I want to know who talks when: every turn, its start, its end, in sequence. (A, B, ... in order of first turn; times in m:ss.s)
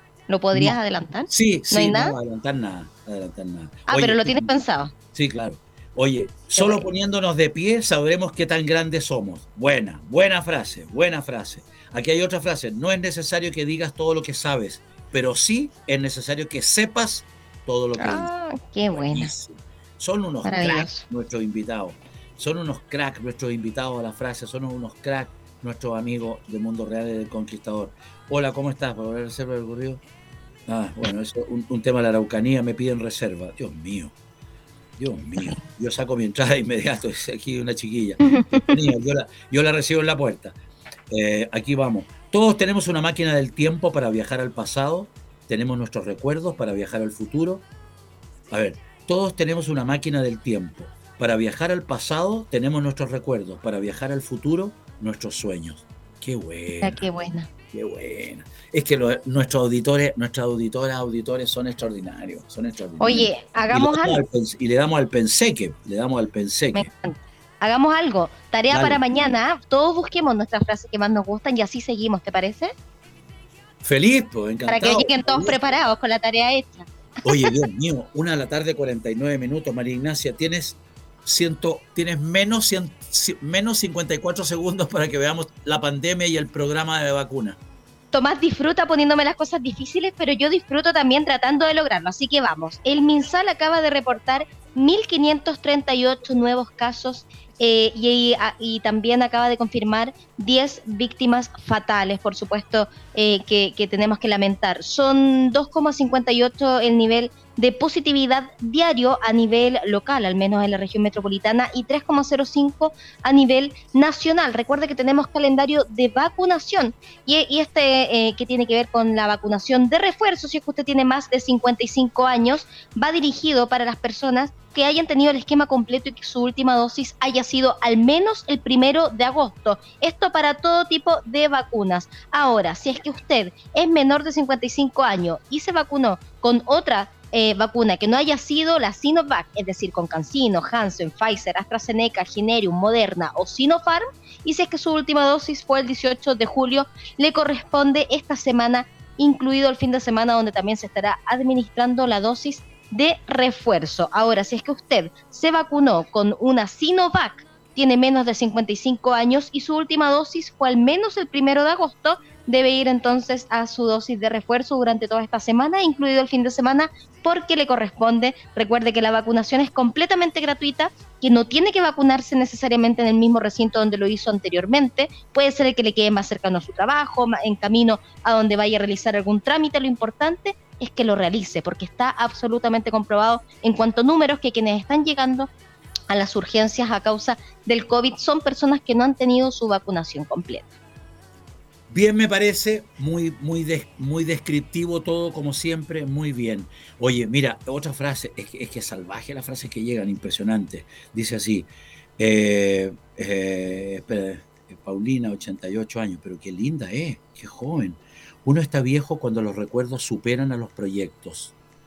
0:00.3-0:02.2 A
0:01.3-0:04.5 B
0:03.9-0:04.9 A
0:05.1-0:18.3 B
0:06.6-0:06.8 A
0:18.0-0:19.3 A
0:18.9-0:30.0 B
0:20.4-0:21.0 A
0:30.7-0:34.1 B
0:35.0-0:40.6 B
0:38.3-0:38.7 A
0:41.1-0:47.6 B
0:48.5-0:57.0 B
0:56.8-0:57.5 A
0:57.7-1:06.9 B
1:03.0-1:04.2 A
1:06.8-1:12.7 A
1:08.7-1:09.0 B
1:13.8-1:15.8 B
1:14.7-1:16.9 A
1:17.2-1:27.6 B
1:28.1-3:05.5 A
3:06.1-3:10.7 A
3:11.9-3:31.5 B